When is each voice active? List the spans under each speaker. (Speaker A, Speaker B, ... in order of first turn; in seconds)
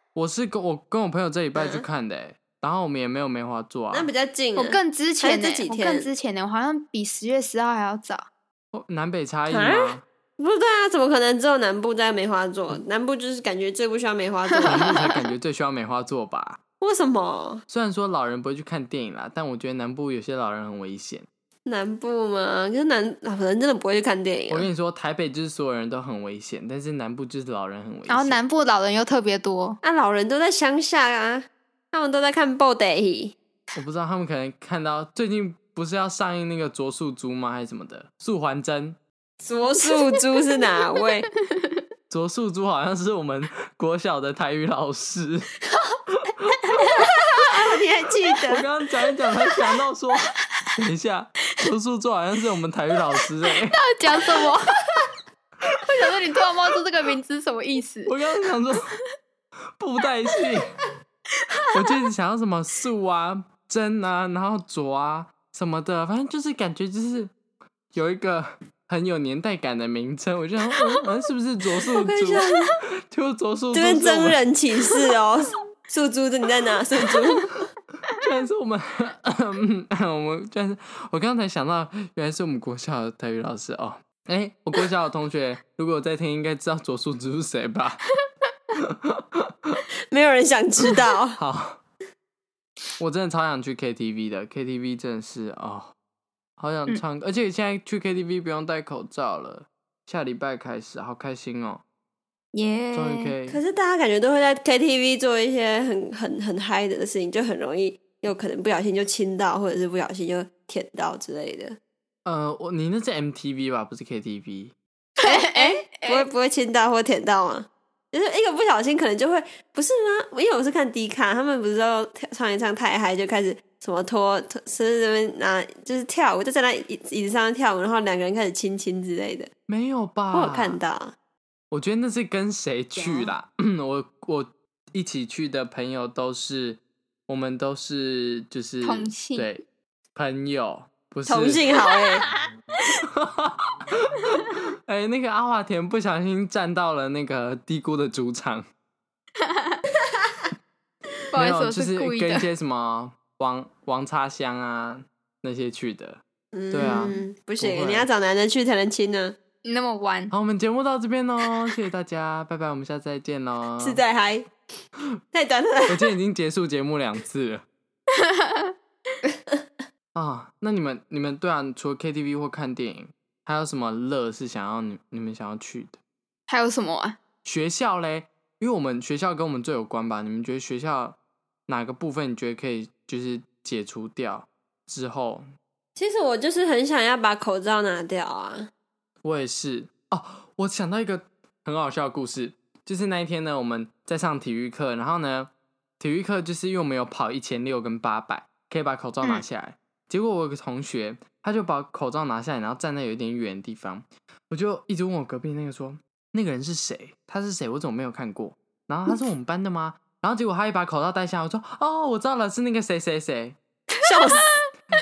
Speaker A: 0.1-4.1, 8.7-10.0, 14.6-16.6, 17.7-21.3, 24.5-28.4, 33.8-39.0, 42.1-45.5, 46.1-46.9, 48.5-53.8, 58.1-58.9, 59.8-60.7, 61.7-67.3, 67.9-74.4, 78.2-88.0, 88.8-89.8, 90.9-91.8, 93.0-95.9, 96.6-101.8, 102.9-103.6, 112.2-114.8, 129.7-130.8, 131.7-141.7, 143.2-143.6, 144.2-148.7, 151.3-156.2, 156.7-158.1, 160.3-164.0, 165.9-167.6, 170.2-176.0, 177.4-185.5, 189.2-213.6
Speaker B: 1.5-1.8, 3.9-6.1, 9.5-15.1, 16.8-17.6, 21.6-24.7, 29.8-33.4, 39.4-41.3, 47.4-48.6, 72.0-72.7, 73.7-77.6, 90.1-91.4, 103.5-111.8, 115.2-129.5, 130.3-131.1, 133.0-133.3, 141.2-142.3, 156.5-159.3, 163.8-164.5, 165.3-166.0, 186.0-188.7, 214.0-214.5
Speaker C: 4.6-8.2, 28.1-29.8, 41.3-41.8, 46.7-47.1, 53.7-55.0, 55.8-58.2, 61.5-61.9, 102.5-103.4, 115.2-116.2, 138.8-139.5, 149.4-149.8, 151.3-152.5, 159.6-160.3, 168.2-168.7, 176.5-177.2